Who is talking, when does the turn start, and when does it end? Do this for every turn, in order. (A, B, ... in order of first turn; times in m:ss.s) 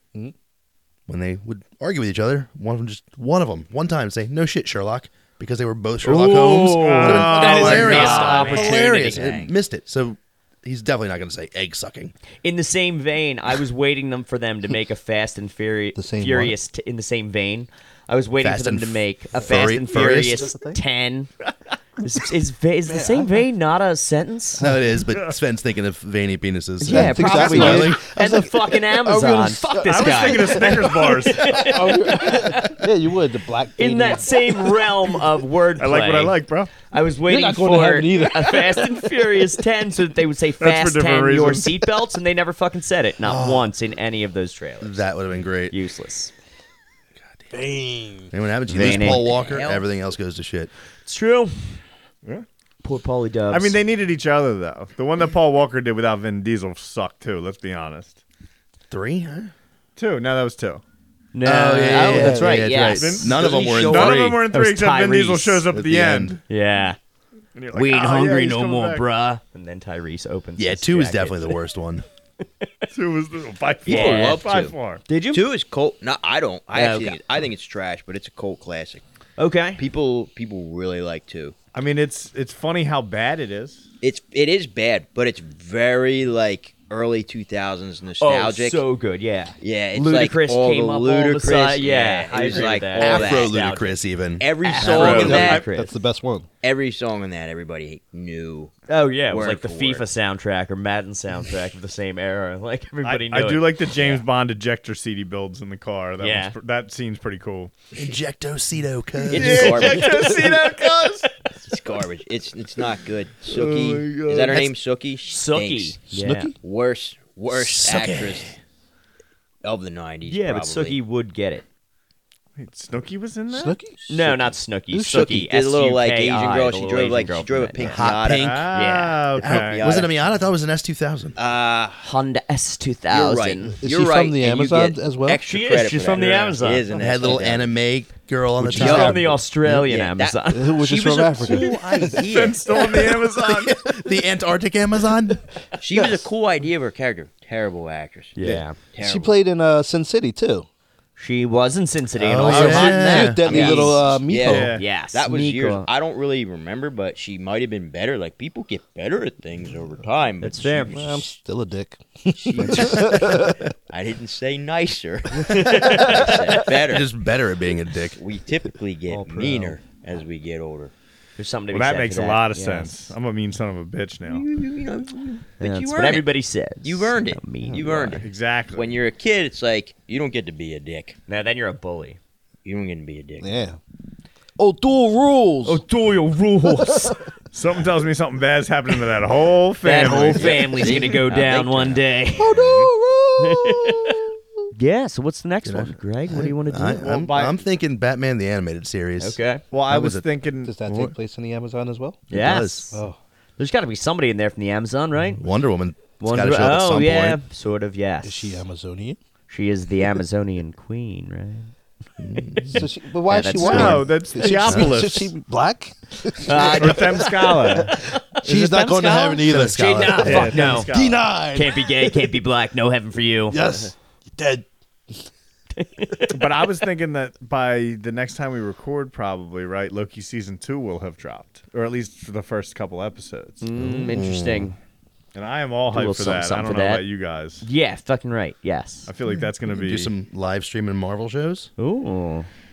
0:01.1-0:12.1 A
0:06.0-0:09.2 B
0:06.7-0:08.7 C
0:07.4-0:09.5 D
0:12.4-0:21.3 B
0:15.9-0:16.6 E
0:18.4-0:20.5 A
0:19.7-0:20.8 E
0:22.0-0:24.6 B
0:22.8-0:23.4 E
0:24.6-0:25.0 E
0:24.6-0:28.0 A
0:26.8-0:32.9 B
0:26.8-0:35.1 E
0:29.8-0:31.8 C
0:33.8-0:36.4 B
0:35.8-0:36.7 C
0:36.9-0:45.0 B
0:37.3-0:39.5 E
0:40.6-0:41.8 C
0:43.2-0:43.7 A
0:44.8-0:45.8 A
0:45.7-0:46.3 B
0:47.5-0:48.3 E
0:48.3-0:50.7 A
0:48.7-0:49.3 B
0:48.9-0:49.9 D
0:51.0-0:51.8 B
0:52.8-0:53.8 B
0:53.5-0:58.2 C
0:58.9-0:59.5 A
1:00.0-1:00.8 C
1:01.3-1:05.7 B
1:01.4-1:04.4 A
1:01.9-1:02.6 E
1:02.9-1:06.4 C
1:05.7-1:06.4 A
1:06.5-1:07.0 B
1:07.5-1:09.0 C
1:07.7-1:11.6 B
1:10.6-1:12.0 A
1:12.9-1:15.0 C
1:13.8-1:14.7 D
1:13.9-1:14.4 B
1:15.1-1:15.4 B
1:15.3-1:19.0 D
1:16.7-1:17.2 B
1:19.4-1:19.8 B
1:19.8-1:21.5 D
1:21.7-1:23.8 C
1:24.0-1:28.8 D
1:28.2-1:34.0 B
1:29.6-1:33.6 D
1:33.0-1:35.6 A
1:34.4-1:35.6 D
1:34.6-1:35.9 B
1:34.9-1:35.6 C
1:35.2-1:36.5 E
1:36.6-1:38.7 D
1:38.9-1:44.2 B
1:39.3-1:40.0 D
1:43.0-1:47.7 C
1:46.2-1:46.6 B
1:47.9-1:50.0 A
1:49.3-1:50.5 D
1:49.3-1:51.3 C
1:50.0-1:50.7 B
1:51.6-1:56.0 D
1:54.4-1:54.7 A
1:55.3-1:56.5 B
1:56.2-1:56.5 E
1:56.6-1:58.6 D
1:57.5-1:58.6 A
1:59.6-2:01.0 D
2:00.2-2:01.6 B
2:02.6-2:03.8 C
2:03.5-2:05.4 E
2:04.1-2:08.1 B
2:05.1-2:08.6 D
2:07.8-2:08.7 A
2:08.3-2:10.0 C
2:08.7-2:09.5 B
2:09.4-2:11.4 A
2:09.4-2:10.2 D
2:11.4-2:12.0 D
2:12.0-2:13.8 B
2:13.1-2:17.7 D
2:13.8-2:15.4 E
2:15.4-2:16.8 B
2:16.1-2:16.6 C
2:16.9-2:19.7 A
2:18.6-2:19.4 E
2:18.7-2:19.2 D
2:18.7-2:20.8 B
2:19.8-2:23.0 D
2:20.5-2:22.3 E
2:22.3-2:23.8 C
2:23.0-2:25.4 A
2:25.8-2:29.3 D
2:25.9-2:26.2 E
2:28.3-2:28.8 B
2:28.5-2:30.7 E
2:31.2-2:35.9 B
2:32.2-2:33.7 A
2:32.4-2:34.7 E
2:33.4-2:41.2 D
2:34.4-2:34.8 C
2:40.4-2:41.0 B
2:40.9-2:43.6 E
2:42.4-2:47.1 D
2:42.6-2:43.1 B
2:45.3-2:46.8 B
2:46.9-2:48.2 A
2:48.2-2:50.9 D
2:49.1-2:49.8 B
2:51.4-2:53.1 B
2:51.7-2:54.4 C
2:54.3-2:56.3 D
2:55.6-2:58.2 B
2:56.8-3:01.2 D
2:58.2-2:59.0 C
3:01.3-3:02.2 B
3:02.6-3:03.5 D
3:03.4-3:03.8 E
3:04.6-3:05.8 E
3:05.6-3:07.2 B
3:06.7-3:07.2 E
3:07.5-3:10.7 C
3:09.8-3:12.6 B
3:10.3-3:12.9 D
3:12.4-3:14.4 E
3:13.4-3:17.0 B
3:15.6-3:20.2 A
3:17.0-3:17.6 C
3:19.2-3:19.6 B
3:19.7-3:20.8 C
3:20.6-3:22.2 E
3:20.8-3:21.1 A
3:22.3-3:23.0 A
3:22.3-3:23.0 B
3:22.9-3:23.2 E
3:23.6-3:25.4 B
3:25.4-3:27.4 A
3:26.2-3:28.6 B
3:28.2-3:29.2 E
3:29.5-3:31.7 B
3:32.2-3:32.9 A
3:32.6-3:42.4 E
3:33.3-3:34.0 B
3:33.6-3:35.3 C
3:33.6-3:34.0 A
3:34.6-3:34.9 A
3:36.4-3:40.9 B
3:36.6-3:38.0 C
3:39.4-3:40.5 A
3:40.2-3:41.3 C
3:41.5-3:43.6 B
3:43.5-3:45.2 E
3:45.8-3:46.4 B
3:46.3-3:53.6 C
3:53.6-3:54.8 B
3:53.7-3:54.7 A
3:55.3-3:57.6 C
3:55.9-3:57.0 B
3:57.6-3:59.1 B
3:59.0-4:00.1 C
3:59.3-4:01.7 A
4:01.8-4:02.5 B